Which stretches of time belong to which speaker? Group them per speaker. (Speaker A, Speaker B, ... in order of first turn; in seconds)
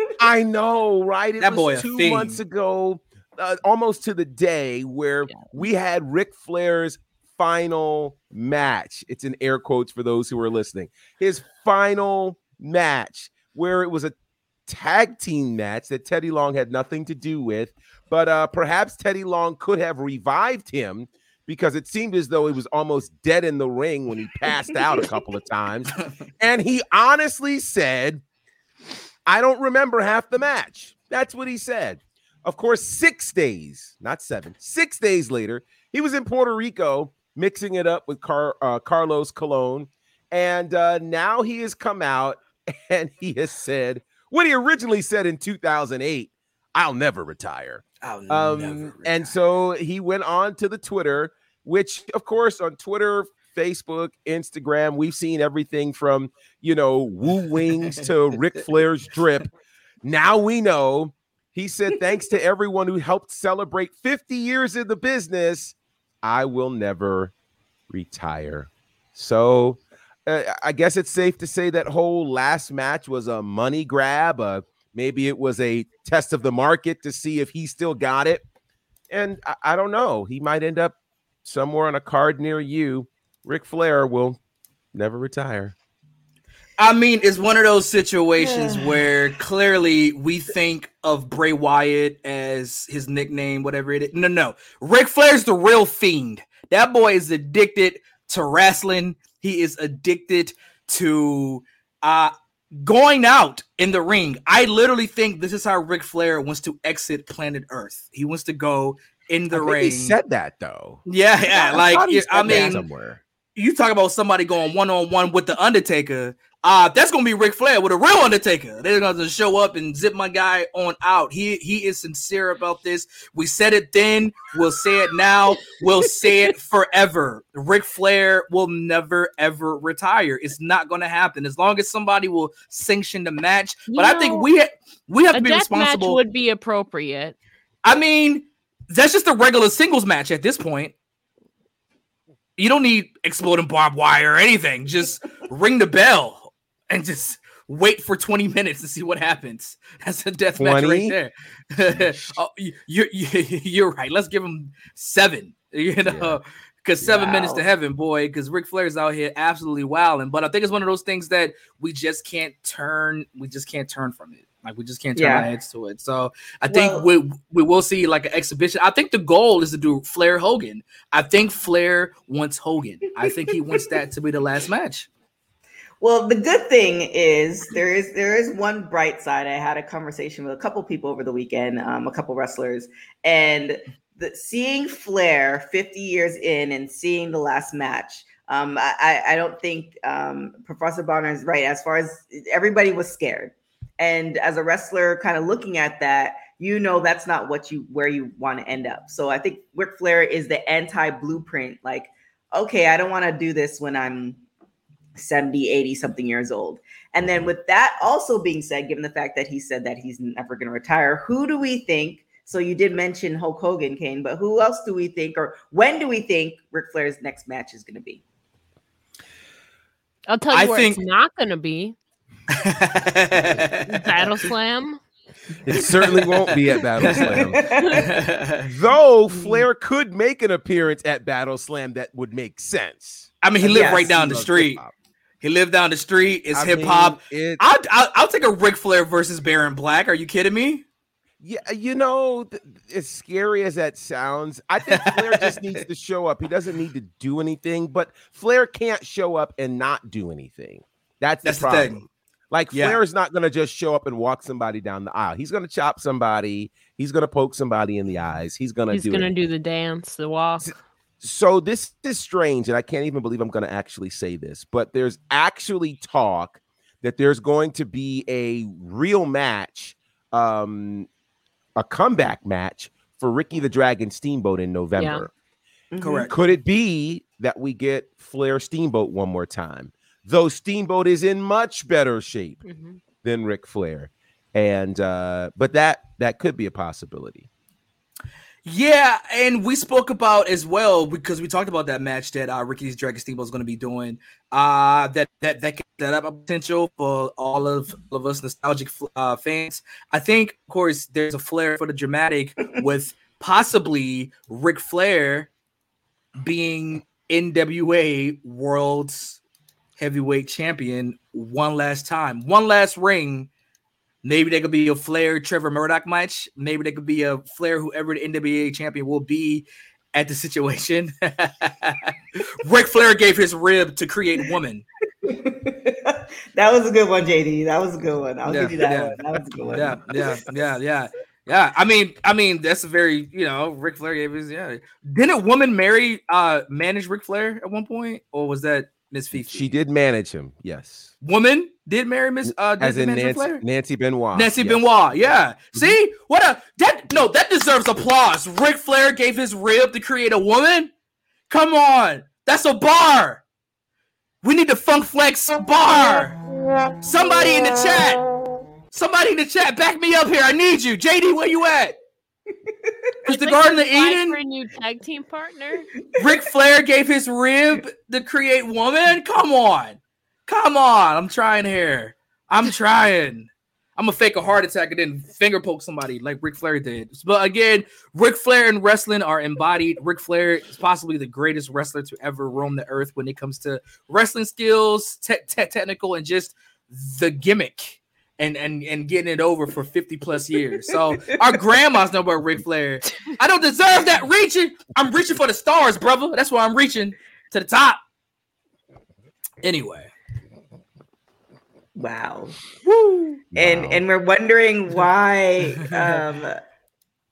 Speaker A: 0.2-14.2, 14.7-28.2, 29.3-59.5, 60.0-67.3, 67.9-78.4, 79.1-84.4, 84.9-85.8, 109.5-113.2, 150.6-151.2, 151.9-152.3, 156.0-156.4, 225.6-227.8, 228.6-234.9, 236.5-237.6, 241.4-259.3, 260.6-271.1, 271.8-275.3, 276.3-282.6, 283.2-287.5, 339.3-341.1, 342.4-344.9, 403.5-404.1
Speaker B: 1.4-2.4, 48.0-49.3, 86.8-110.2, 111.1-112.8, 113.6-136.2, 137.8-140.9, 142.6-175.1, 220.5-221.0, 222.6-224.3, 225.7-228.7, 233.4-234.8, 235.4-240.8, 244.9-245.8, 251.4-252.0, 252.7-253.0, 276.0-276.4, 288.7-305.5, 306.4-309.4, 310.0-313.5, 314.2-324.9, 328.5-339.7, 341.2-343.6, 344.3-350.9, 351.5-353.4, 354.4-356.4, 357.0-358.2, 358.9-362.0, 363.2-364.4, 366.2-398.0, 399.6-400.1
Speaker C: 88.4-89.0, 157.0-157.6, 165.2-165.5, 166.7-167.1, 176.0-204.4, 205.2-218.2, 227.2-228.1, 233.6-234.1, 275.9-276.3, 325.2-330.5, 362.7-362.9, 402.0-402.6, 403.6-406.6
Speaker D: 133.9-134.5, 135.3-137.4, 220.3-222.0, 223.9-225.0, 258.9-260.7, 275.0-275.3, 282.6-283.0, 363.2-365.9